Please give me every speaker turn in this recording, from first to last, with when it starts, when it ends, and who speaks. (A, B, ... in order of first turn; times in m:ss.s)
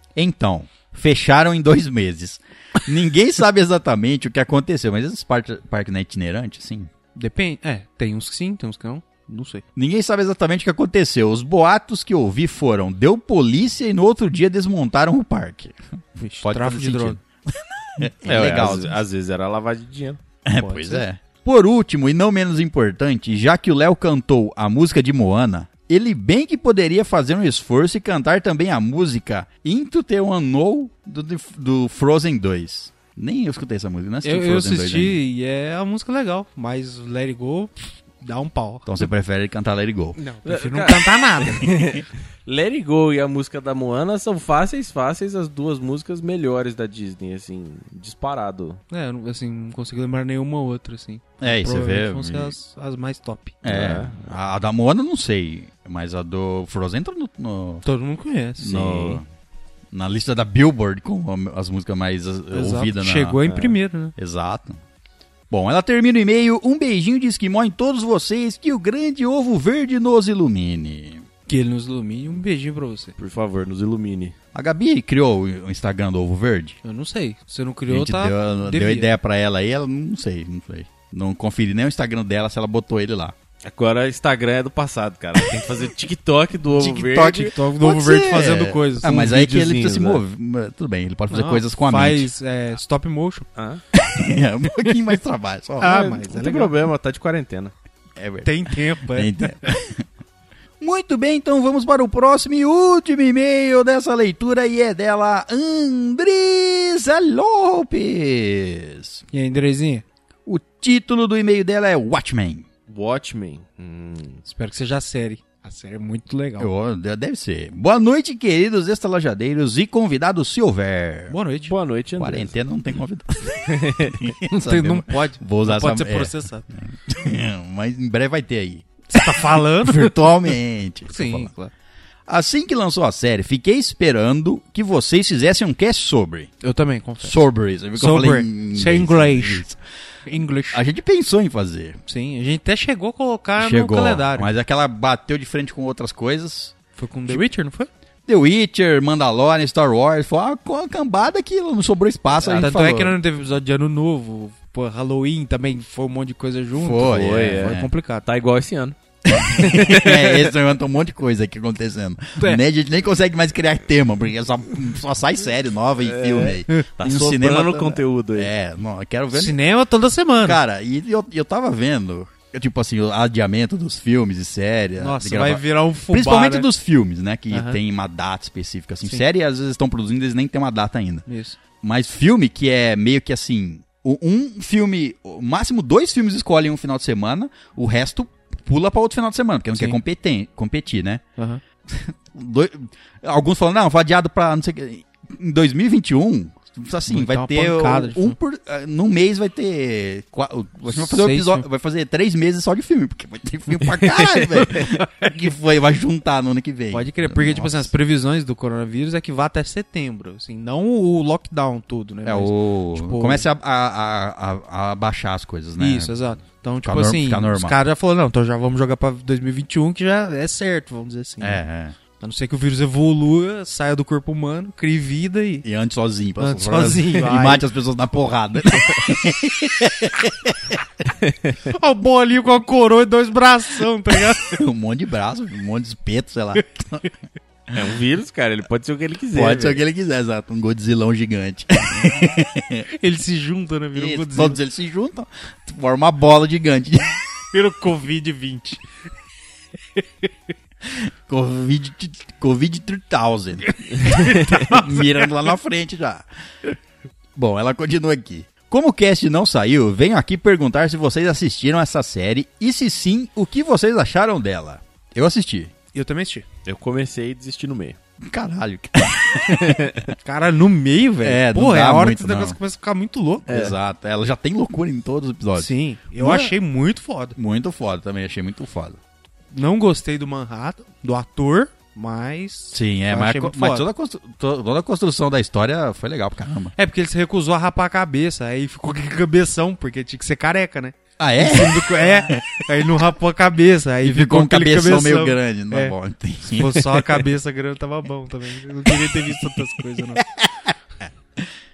0:00.2-0:06.9 A
0:07.2-0:09.6 B
0:09.7-0:15.8 A
0:16.2-0:17.2 B
0:16.4-0:19.0 A
0:18.2-0:20.2 C
0:20.4-0:35.2 A
0:20.6-0:21.0 B
0:34.2-0:38.9 B
0:38.9-0:40.2 A
0:40.2-0:41.7 B
0:40.4-0:48.8 C
0:48.9-0:53.6 B
0:51.4-0:52.5 A
0:53.6-0:57.8 A
0:53.6-0:54.3 C
0:57.8-0:58.9 B
0:58.6-0:59.2 A
0:58.7-0:59.2 C
0:59.9-1:03.4 A
1:02.5-1:04.1 B
1:03.5-1:03.8 C
1:04.2-1:04.8 A
1:05.5-1:11.2 A
1:11.5-1:13.1 B
1:13.2-1:14.3 C
1:14.5-1:16.8 A
1:16.8-1:19.1 B
1:17.9-1:23.4 A
1:23.6-1:27.5 C
1:26.8-1:32.3 A
1:27.5-1:29.3 B
1:29.0-1:30.2 C
1:31.3-1:33.4 B
1:33.6-1:33.8 C
1:33.9-1:36.0 A
1:35.8-1:36.8 B
1:35.8-1:37.7 C
1:38.2-1:40.0 A
1:38.4-1:39.7 B
1:40.8-1:49.2 A
1:49.3-1:50.0 B
1:50.4-1:52.6 A
1:52.9-1:54.4 C
1:54.4-1:56.7 B
1:56.6-2:01.4 A
2:01.3-2:01.7 B
2:01.7-2:02.5 C
2:02.2-2:11.5 A
2:03.7-2:04.3 C
2:04.5-2:06.7 B
2:09.1-2:10.2 B
2:11.1-2:11.7 B
2:12.3-2:16.5 A
2:16.6-2:17.4 B
2:17.2-2:19.8 A
2:18.0-2:19.7 B
2:20.2-2:20.8 B
2:20.7-2:22.0 A
2:22.1-2:24.5 B
2:23.6-2:26.7 A
2:27.0-2:27.9 B
2:28.2-2:33.2 A
2:32.4-2:32.7 C
2:32.6-2:38.2 B
2:36.7-2:37.9 A
2:37.1-2:39.0 C
2:39.2-2:49.6 A
2:39.6-2:40.5 C
2:46.0-2:48.5 C
2:49.3-2:50.6 B
2:50.4-3:01.2 A
2:55.0-2:56.7 B
2:57.5-2:57.8 B
3:01.2-3:01.6 B
3:01.8-3:11.2 A
3:11.9-3:27.9 A
3:17.1-3:18.4 B
3:20.9-3:21.6 B
3:24.3-3:24.6 C
3:26.9-3:33.4 B
3:32.2-3:36.2 A
3:35.8-3:41.6 B
3:36.8-3:37.8 A
3:41.4-3:42.0 A
3:42.2-3:45.6 B
3:45.6-3:50.8 A
3:46.4-3:47.6 B
3:51.2-3:51.5 C
3:51.7-3:54.6 B
3:54.4-3:57.1 A
3:57.7-3:59.8 C
3:59.3-4:02.9 A
4:02.9-4:04.6 B
4:03.9-4:07.2 A
4:07.5-4:08.8 B
4:10.0-4:10.3 B
4:10.8-4:16.2 A
4:13.8-4:15.3 B
4:17.4-4:25.7 A
4:25.9-4:26.4 B
4:26.6-4:28.0 C
4:28.2-4:30.0 A
4:29.6-4:30.0 C
4:30.2-4:33.5 B
4:31.2-4:32.6 A
4:33.5-4:36.5 A
4:33.5-4:33.8 C
4:35.6-4:37.4 B
4:37.4-4:39.0 A
4:39.5-4:43.9 B
4:42.7-4:46.7 A
4:46.8-5:00.2 B
4:51.2-4:52.6 A
4:54.0-4:57.2 A
4:58.9-4:59.4 A
5:00.2-5:00.7 A